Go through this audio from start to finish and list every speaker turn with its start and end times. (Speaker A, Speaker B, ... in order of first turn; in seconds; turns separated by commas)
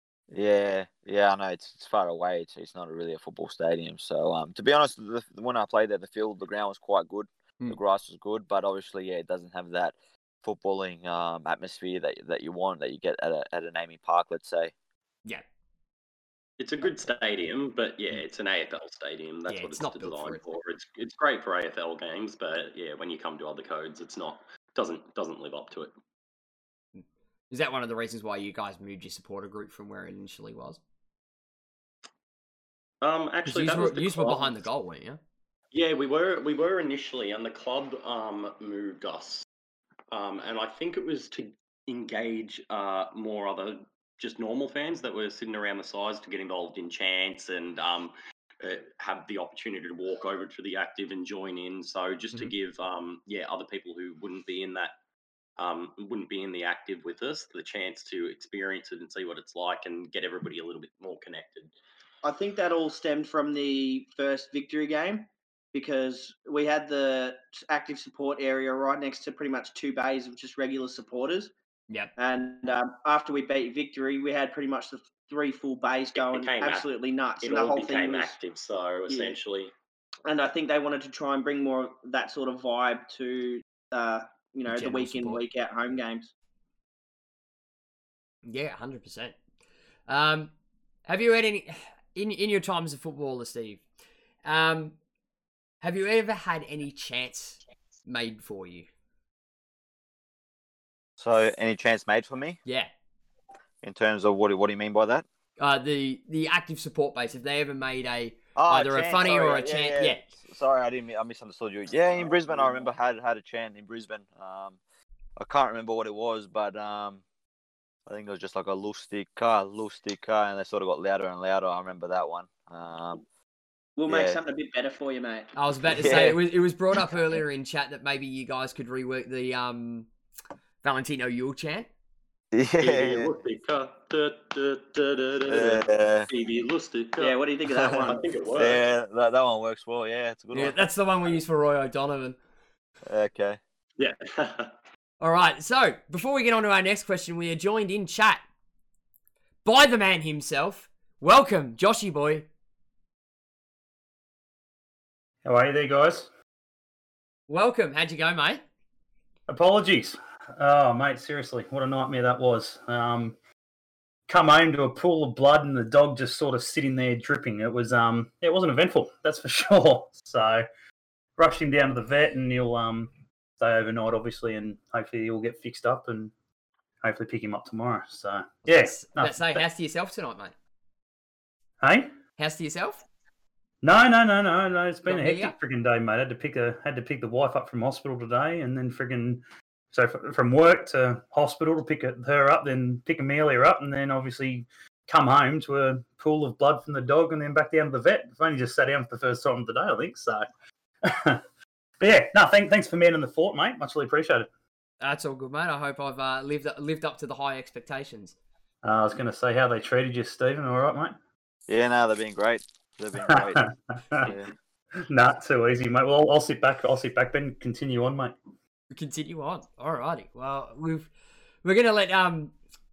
Speaker A: 0.3-14.7, Speaker B: 16.6-25.9, Speaker C: 19.5-20.4, Speaker C: 27.0-30.8, Speaker B: 33.0-34.6, Speaker C: 33.5-35.2, Speaker B: 35.7-39.5, Speaker B: 40.1-54.9, Speaker B: 55.6-61.7, Speaker D: 62.2-71.5, Speaker D: 72.2-78.3, Speaker B: 76.2-76.9, Speaker B: 77.4-79.7, Speaker D: 79.1-79.4, Speaker D: 80.2-86.3, Speaker C: 84.7-85.4, Speaker C: 88.4-89.4, Speaker C: 90.1-90.5, Speaker C: 91.1-93.8, Speaker C: 94.5-95.0, Speaker C: 95.8-98.9, Speaker A: 101.2-102.6, Speaker C: 102.7-102.9, Speaker A: 103.8-105.3, Speaker C: 105.6-110.2, Speaker A: 108.6-114.8, Speaker A: 115.4-117.2, Speaker A: 118.1-123.2, Speaker D: 124.0-125.5, Speaker A: 124.1-124.4, Speaker C: 125.5-130.1, Speaker A: 125.8-126.4, Speaker C: 130.8-131.9, Speaker A: 132.5-133.3, Speaker B: 132.8-138.8, Speaker A: 135.5-136.3, Speaker D: 137.2-138.3, Speaker A: 137.7-140.9, Speaker C: 140.5-142.4, Speaker A: 143.1-143.6, Speaker B: 144.0-144.7, Speaker C: 145.2-148.4, Speaker C: 149.6-152.5, Speaker E: 155.4-156.3, Speaker C: 157.5-158.6, Speaker E: 159.5-163.4, Speaker E: 164.3-170.7, Speaker E: 171.4-176.3, Speaker E: 177.0-179.6, Speaker C: 178.7-180.5, Speaker E: 181.8-182.2, Speaker C: 182.4-183.1, Speaker E: 183.8-200.5, Speaker C: 185.1-185.6, Speaker E: 201.1-201.4, Speaker E: 202.0-204.5, Speaker C: 205.0-208.4, Speaker E: 208.8-211.2, Speaker A: 211.7-213.7, Speaker E: 213.3-214.3, Speaker A: 214.2-214.5, Speaker E: 215.1-218.3, Speaker C: 218.9-221.1, Speaker C: 221.6-222.6